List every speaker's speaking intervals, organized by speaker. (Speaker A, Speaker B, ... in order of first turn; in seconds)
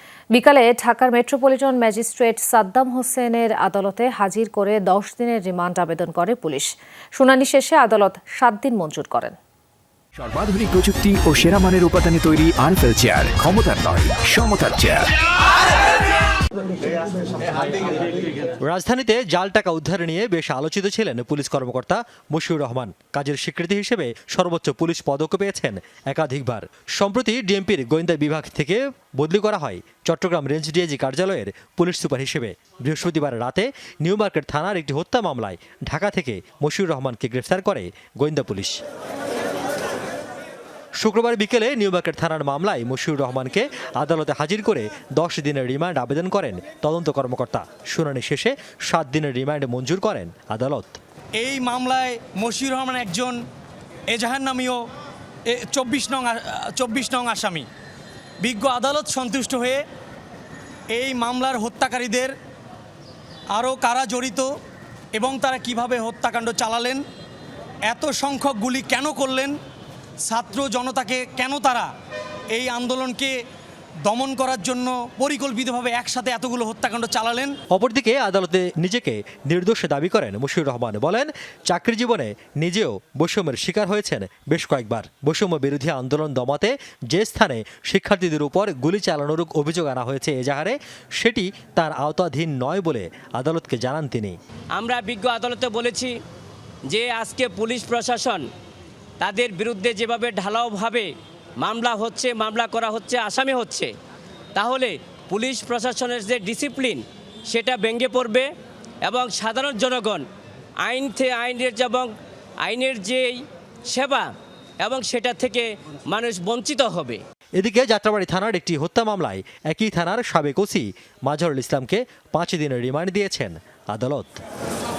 Speaker A: 0.3-9.4
Speaker B: 10.2-15.1
Speaker C: 18.6-38.8, 41.0-51.0, 77.7-94.4, 117.6-124.4
Speaker D: 51.4-53.4, 54.1-54.8, 55.5-57.7, 58.4-59.8, 60.9-62.3, 63.5-64.5, 65.2-67.0, 67.9-69.5, 70.3-71.9, 72.5-73.3, 74.1-77.5
Speaker E: 94.8-96.1, 96.9-98.5, 99.2-103.9, 104.5-108.5, 109.0-110.2, 110.8-112.1, 112.6-117.2